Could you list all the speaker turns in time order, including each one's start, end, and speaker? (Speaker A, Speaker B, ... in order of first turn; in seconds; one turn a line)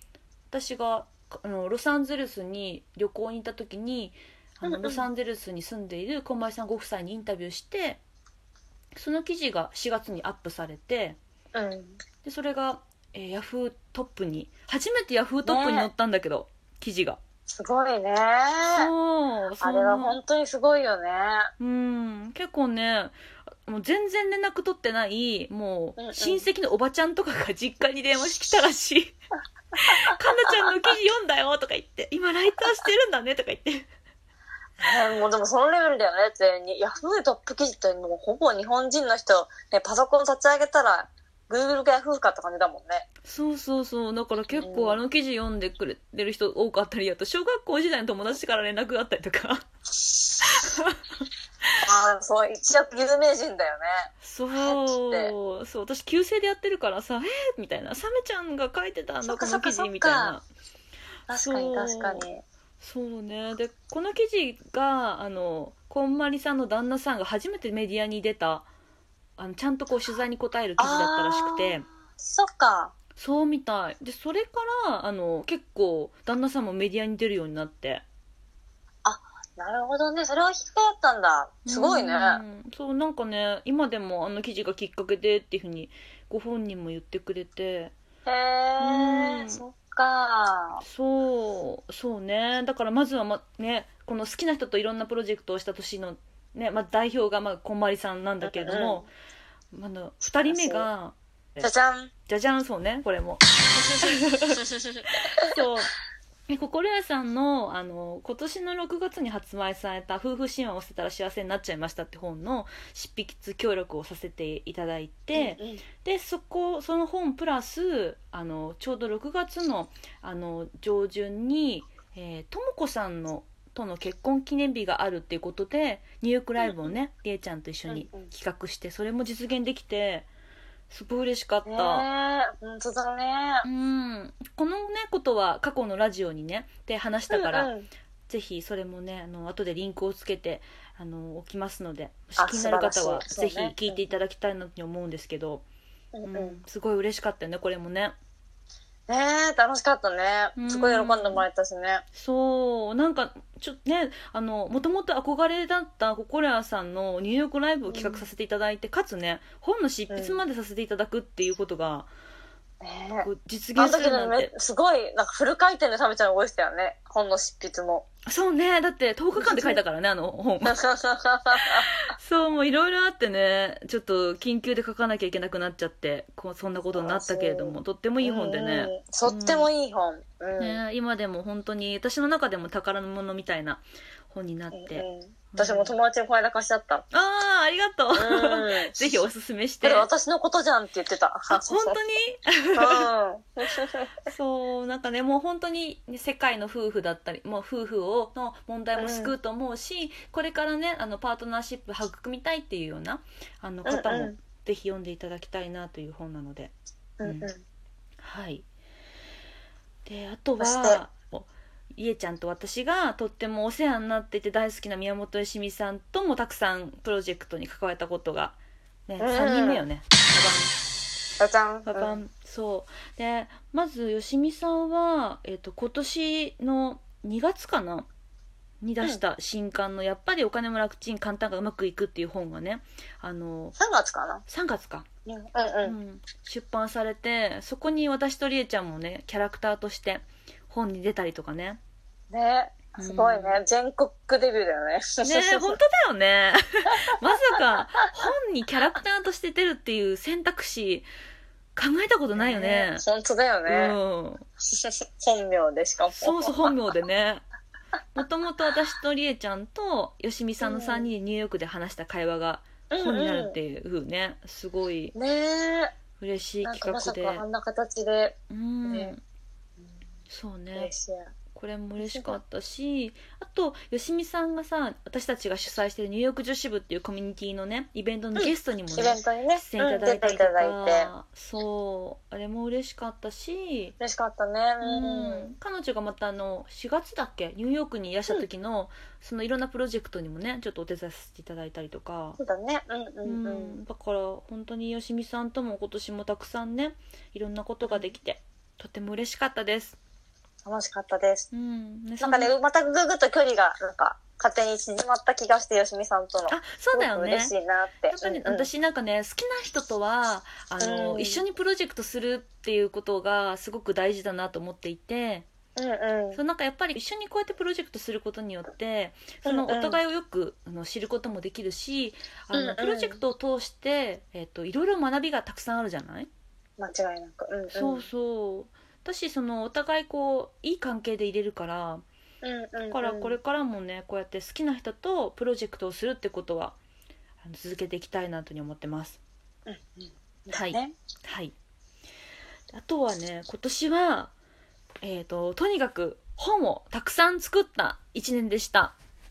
Speaker A: 0.5-8.0
Speaker B: 4.6-5.0
Speaker A: 8.9-11.2
Speaker B: 11.5-12.0
Speaker A: 12.2-17.2
Speaker B: 15.4-15.9
Speaker B: 17.5-18.9
Speaker A: 18.7-20.2
Speaker B: 19.6-21.5
Speaker A: 21.6-23.1
Speaker A: 23.6-29.1
Speaker B: 26.0-26.4
Speaker A: 29.8-33.9
Speaker B: 34.8-43.0
Speaker A: 43.2-49.6
Speaker B: 44.5-45.0
Speaker A: 50.4-51.2
Speaker B: 51.8-55.3
Speaker A: 54.2-60.5
Speaker B: 59.2-60.4
Speaker B: 61.3-62.4
Speaker A: 61.3-62.2
Speaker A: 62.8-68.7
Speaker A: 69.4-71.8
Speaker B: 70.8-72.9
Speaker A: 73.2-78.0
Speaker B: 79.0-82.4
Speaker A: 81.6-87.9
Speaker B: 88.2-90.8
Speaker A: 88.8-89.6
Speaker A: 90.8-99.1
Speaker B: 98.4-99.0
Speaker A: 99.7-101.7
Speaker B: 100.3-100.9
Speaker B: 101.6-102.1
Speaker A: 102.3-105.9
Speaker A: 106.5-130.3
Speaker B: 115.3-115.8
Speaker B: 126.6-126.9
Speaker B: 127.9-128.3
Speaker A: 130.9-132.1
Speaker B: 131.6-133.6
Speaker A: 133.6-137.7
Speaker B: 137.3-137.9
Speaker A: 138.3-145.6
Speaker B: 142.4-144.0
Speaker B: 146.1-146.6
Speaker A: 146.2-148.2
Speaker B: 149.1-152.0
Speaker A: 150.6-151.5
Speaker A: 152.1-162.1
Speaker B: 157.9-158.2
Speaker B: 160.1-160.4
Speaker B: 162.8-168.1
Speaker A: 163.2-164.5
Speaker A: 168.3-170.8
Speaker B: 169.3-169.8
Speaker B: 170.7-171.8
Speaker A: 171.8-179.7
Speaker B: 176.9-180.8
Speaker A: 180.6-185.9
Speaker B: 184.7-187.0
Speaker A: 187.1-190.1
Speaker B: 188.1-189.0
Speaker B: 189.8-192.0
Speaker A: 191.5-193.1
Speaker B: 192.8-194.1
Speaker A: 194.2-207.5
Speaker B: 199.0-199.3
Speaker B: 203.8-204.3
Speaker B: 207.2-207.6
Speaker A: 208.2-208.7
Speaker A: 210.1-220.8
Speaker B: 210.6-211.0
Speaker B: 219.2-219.8
Speaker B: 221.4-222.2
Speaker A: 221.8-228.1
Speaker A: 228.8-233.8
Speaker B: 233.8-234.4
Speaker A: 234.5-235.1
Speaker B: 235.2-235.9
Speaker A: 235.8-241.8
Speaker B: 242.3-245.8
Speaker A: 243.0-243.6
Speaker A: 245.2-251.1
Speaker A: 251.8-253.0
Speaker B: 252.3-253.9
Speaker A: 253.7-254.4
Speaker B: 254.7-256.7
Speaker A: 256.2-257.4
Speaker A: 258.1-265.1
Speaker B: 260.6-261.1
Speaker B: 262.9-263.6
Speaker B: 265.1-265.9
Speaker A: 266.2-267.4
Speaker B: 266.6-269.1
Speaker A: 268.5-269.2
Speaker A: 270.3-270.9
Speaker B: 270.7-271.3
Speaker A: 271.5-284.0
Speaker B: 272.0-272.4
Speaker B: 278.4-281.1
Speaker B: 284.0-285.5
Speaker A: 284.8-292.4
Speaker B: 292.4-293.8
Speaker A: 293.2-300.0
Speaker B: 297.8-298.1
Speaker B: 300.6-301.5
Speaker A: 301.5-302.5
Speaker B: 302.2-308.7
Speaker A: 306.5-307.5
Speaker A: 308.1-315.5
Speaker B: 310.8-311.4
Speaker B: 315.8-316.4
Speaker A: 316.3-326.3
Speaker B: 319.4-320.0
Speaker B: 322.5-323.2
Speaker B: 326.8-328.1
Speaker A: 327.7-332.0
Speaker B: 332.4-333.4
Speaker A: 332.9-336.8
Speaker A: 337.4-339.2
Speaker B: 339.6-340.9
Speaker A: 340.5-341.5
Speaker A: 342.7-344.3
Speaker A: 345.0-348.9